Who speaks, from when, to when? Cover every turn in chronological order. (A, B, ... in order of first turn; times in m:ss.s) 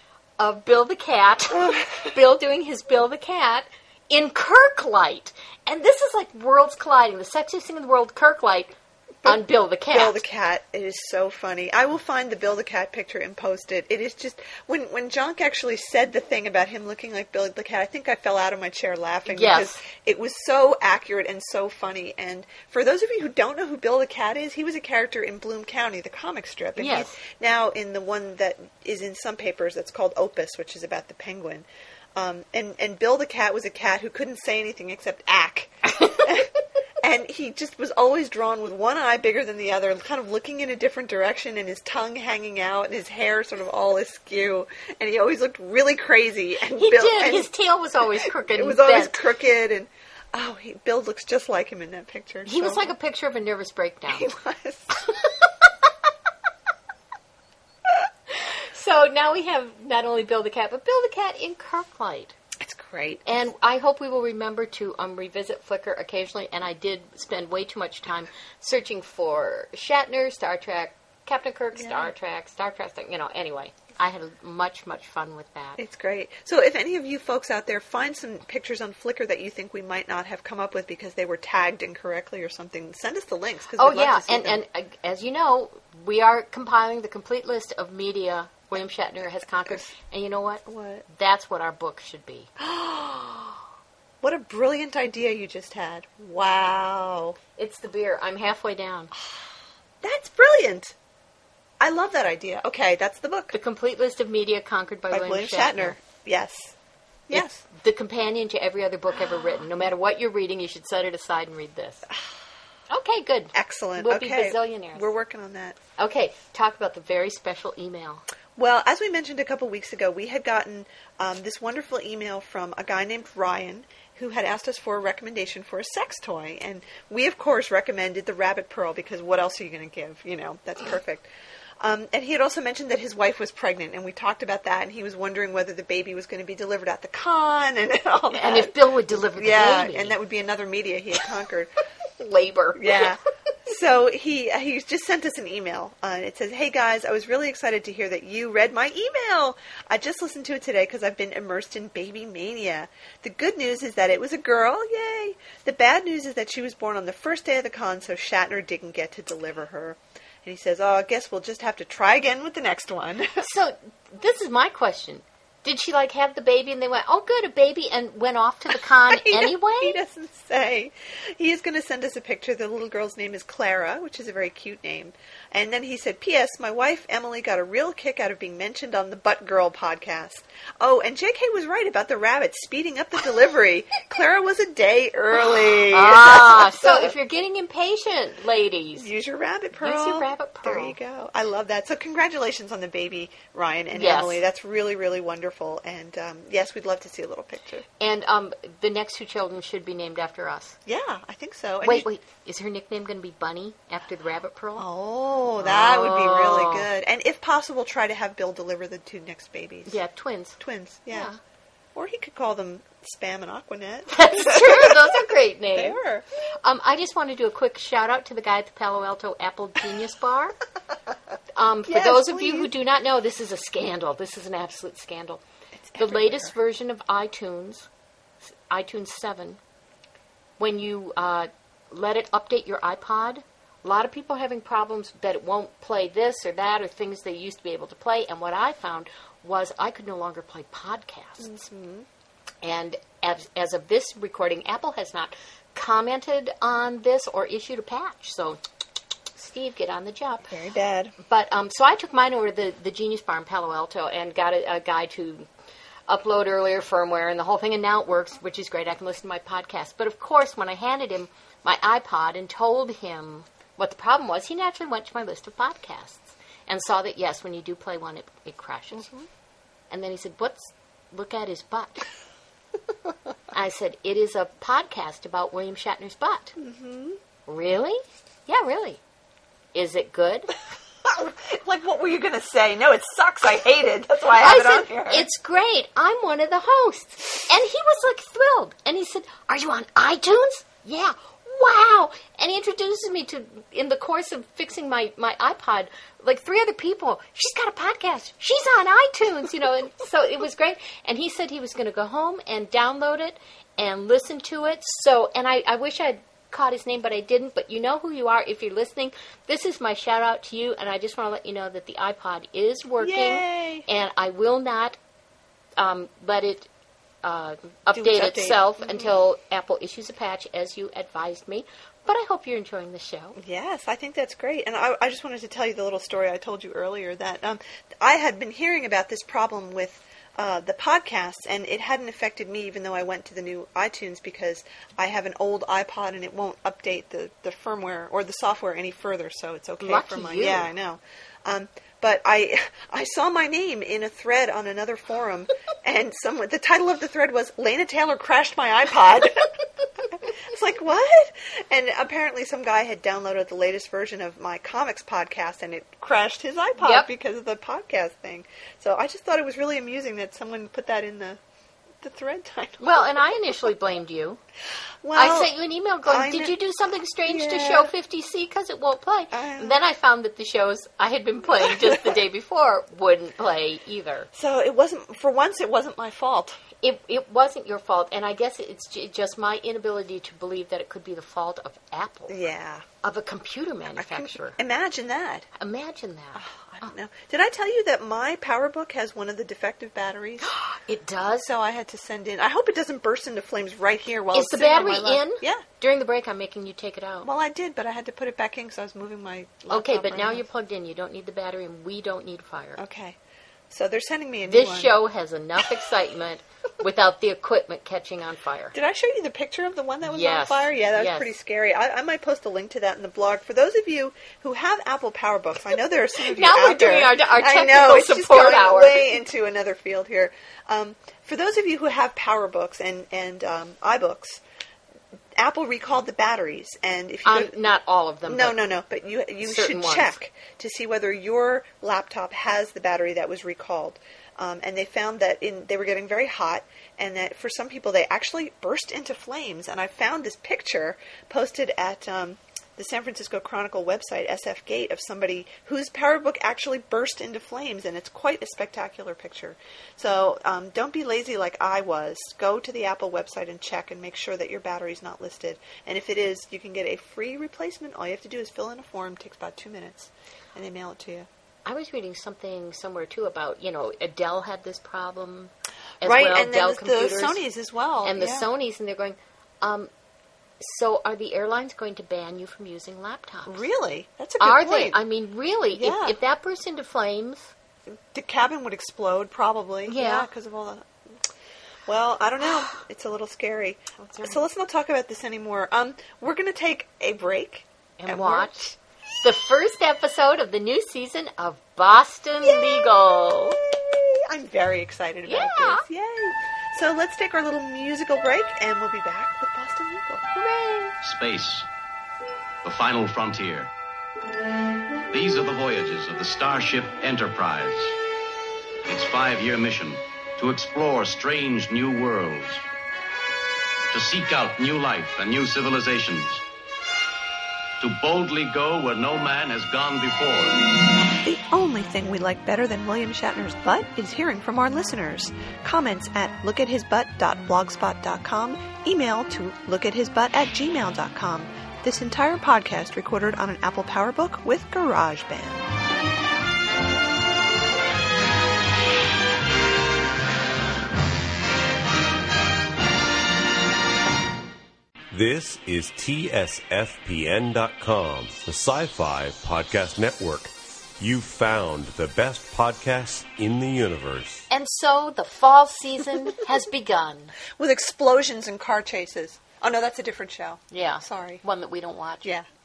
0:00.4-0:08.7 A
0:09.2-0:47.5 B
0:09.2-0:10.2 A
0:19.3-0:19.8 A
0:26.8-0:27.2 A
0:46.7-0:49.2 A
0:48.2-0:52.9 B
0:52.4-0:54.3 A
0:54.1-0:55.2 B
0:58.3-1:02.3 A
1:02.6-1:03.3 B
1:03.2-1:15.8 A
1:11.8-1:12.1 B
1:15.8-1:24.6 B
1:23.8-1:32.5 A
1:29.6-1:29.9 B
1:30.6-1:31.0 B
1:32.6-1:33.6 B
1:34.2-1:37.4 B
1:37.6-1:39.1 A
1:40.0-1:41.0 B
1:41.8-1:43.5 B
1:43.5-1:46.0 A
1:45.1-1:46.7 B
1:47.3-1:47.6 B
1:47.3-1:52.0 A
1:49.1-1:49.7 B
1:52.9-1:55.1 A
1:53.5-1:55.8 B
1:56.0-1:58.2 A
1:58.6-2:11.3 B
2:11.8-2:21.7 B
2:18.3-2:20.2 A
2:22.2-2:23.2 A
2:22.8-2:43.4 B
2:43.4-2:50.0 A
2:49.1-3:07.1 B
3:05.9-3:09.1 A
3:09.0-3:17.8 B
3:09.8-3:11.0 A
3:13.9-3:14.4 A
3:18.0-3:20.8 A
3:20.8-3:22.1 B
3:21.8-3:24.9 A
3:24.8-3:30.0 B
3:25.6-3:26.9 A
3:29.9-3:30.6 A
3:30.6-3:31.3 B
3:31.1-3:31.4 A
3:31.9-3:36.2 B
3:34.1-3:36.0 A
3:36.6-3:40.6 A
3:41.5-3:45.4 A
3:41.8-3:42.7 B
3:45.8-3:46.6 B
3:46.0-3:47.9 A
3:48.7-3:49.6 A
3:50.6-4:01.5 A
4:01.4-4:02.1 B
4:02.6-4:08.6 A
4:09.4-4:10.5 A
4:10.5-4:11.1 B
4:11.2-4:15.4 A
4:16.1-4:29.1 A
4:28.9-4:29.3 B
4:29.9-4:32.1 A
4:33.5-4:36.6 A
4:36.6-4:37.2 B
4:37.5-4:39.0 A
4:39.7-4:40.5 A
4:41.0-4:45.3 B
4:44.4-5:15.0 A
5:13.0-5:13.9 B
5:15.8-5:16.7 A
5:17.2-5:23.4 A
5:17.9-5:19.2 B
5:23.4-6:01.4 B
5:39.8-5:40.7 A
5:56.8-5:57.1 A
6:02.0-6:03.4 B
6:02.8-6:04.4 A
6:05.0-6:06.6 B
6:05.1-6:14.3 A
6:07.2-6:07.9 B
6:09.3-6:09.8 B
6:11.6-6:12.2 B
6:14.3-6:16.6 B
6:16.8-6:22.4 A
6:22.3-6:22.8 B
6:23.0-6:24.6 A
6:24.0-6:25.5 B
6:25.6-6:26.9 A
6:26.3-6:30.5 B
6:30.4-6:31.5 A
6:31.4-6:35.6 B
6:34.3-6:37.3 A
6:37.2-6:40.4 B
6:39.7-6:42.8 A
6:42.8-6:43.2 B
6:43.7-6:44.9 B
6:44.4-6:48.7 A
6:48.7-7:04.4 B
6:50.0-6:51.3 A
6:56.2-6:59.2 A
7:05.4-7:07.6 B
7:07.2-7:08.6 A
7:08.3-7:41.3 B
7:09.4-7:10.1 A
7:41.6-7:47.4 A
7:46.0-7:48.5 B
7:48.0-7:49.9 A
7:50.6-7:53.6 A
7:53.4-7:55.0 B
7:54.4-7:57.5 A
7:55.7-7:56.2 B
7:57.9-8:01.2 B
7:59.9-8:00.3 A
8:01.8-8:08.6 B
8:04.0-8:04.4 A
8:08.0-8:13.6 A
8:12.4-8:20.2 B
8:15.2-8:15.8 A
8:20.3-8:20.9 A
8:21.0-8:21.7 C
8:22.6-8:23.7 C
8:25.1-8:28.0 C
8:28.8-8:32.6 C
8:33.9-8:36.4 C
8:37.8-8:40.6 C
8:41.2-8:55.7 B
9:05.1-9:14.4 D
9:14.5-9:17.4 A
9:17.5-9:21.4 B
9:20.7-9:22.3 A